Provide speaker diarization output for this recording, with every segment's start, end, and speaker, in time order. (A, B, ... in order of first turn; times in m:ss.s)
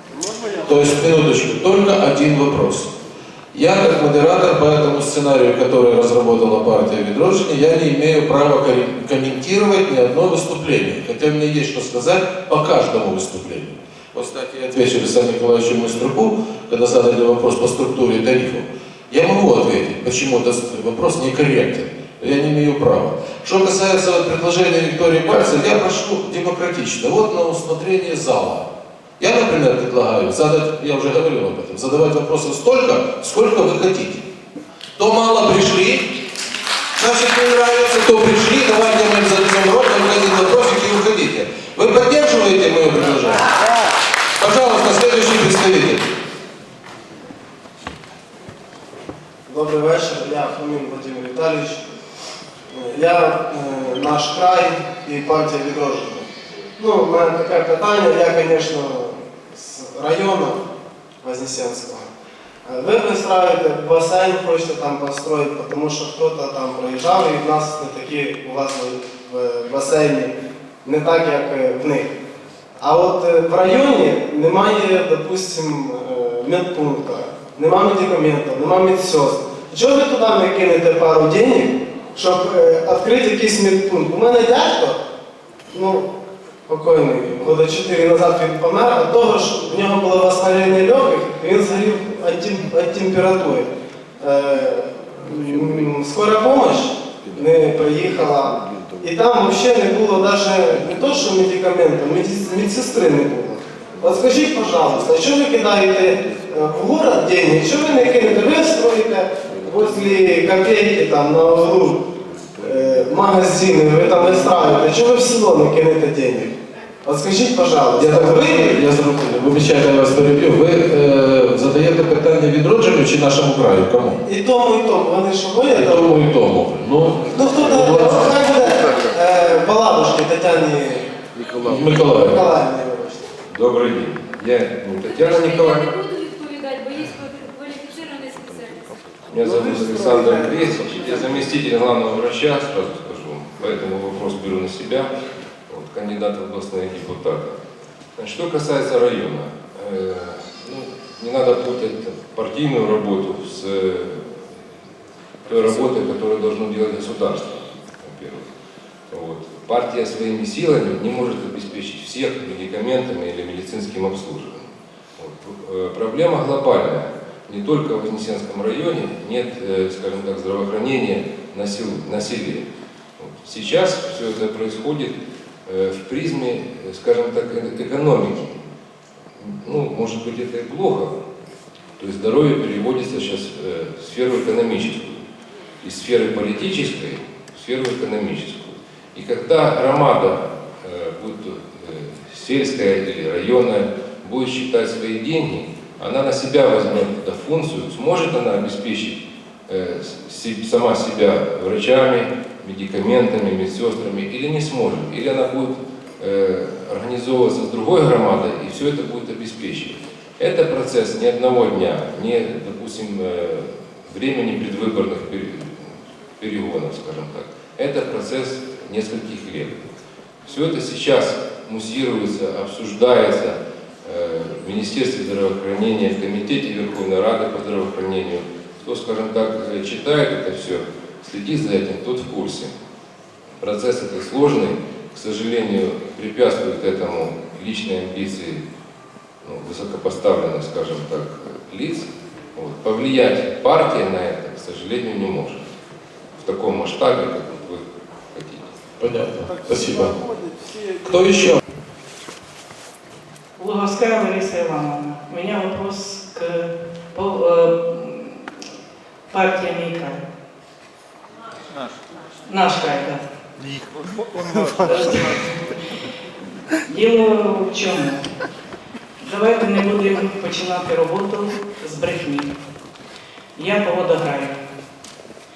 0:00.6-0:02.9 A
0:03.5-0:34.3 A
0:35.0-0:36.1 A
0:37.0-0:43.5 A
0:44.4-0:46.1 A
0:49.5-0:51.8 B
0:52.7-1:00.6 B
1:01.2-1:02.1 B
1:02.6-1:12.1 B
1:12.8-1:25.0 B
1:25.7-1:26.1 B
1:26.7-1:52.0 B
1:52.6-1:58.8 B
1:58.0-2:04.2 A
2:04.2-2:06.2 B
2:05.6-2:08.6 A
2:07.3-2:11.1 B
2:11.6-2:12.4 A
2:11.6-2:13.2 B
2:13.5-2:15.9 C
2:15.1-2:18.9 D
2:19.3-2:25.1 C
2:25.7-2:27.6 C
2:28.2-2:34.5 C
2:35.4-2:38.4 C
2:39.1-2:52.6 C
2:53.2-2:55.1 C
2:55.6-2:58.6 C
2:59.4-3:01.1 C
3:02.0-3:05.2 C
3:05.8-3:39.9 C
3:40.4-3:52.7 C
3:53.6-3:58.6 C
3:59.4-4:05.6 C
4:06.4-4:08.7 C
4:09.0-4:10.2 A
4:11.0-4:11.6 A
4:13.6-4:18.4 E
4:19.3-4:20.2 E
4:22.5-4:23.2 E
4:24.8-4:25.6 E
4:26.9-4:28.3 E
4:29.2-4:32.5 E
4:33.6-4:34.6 E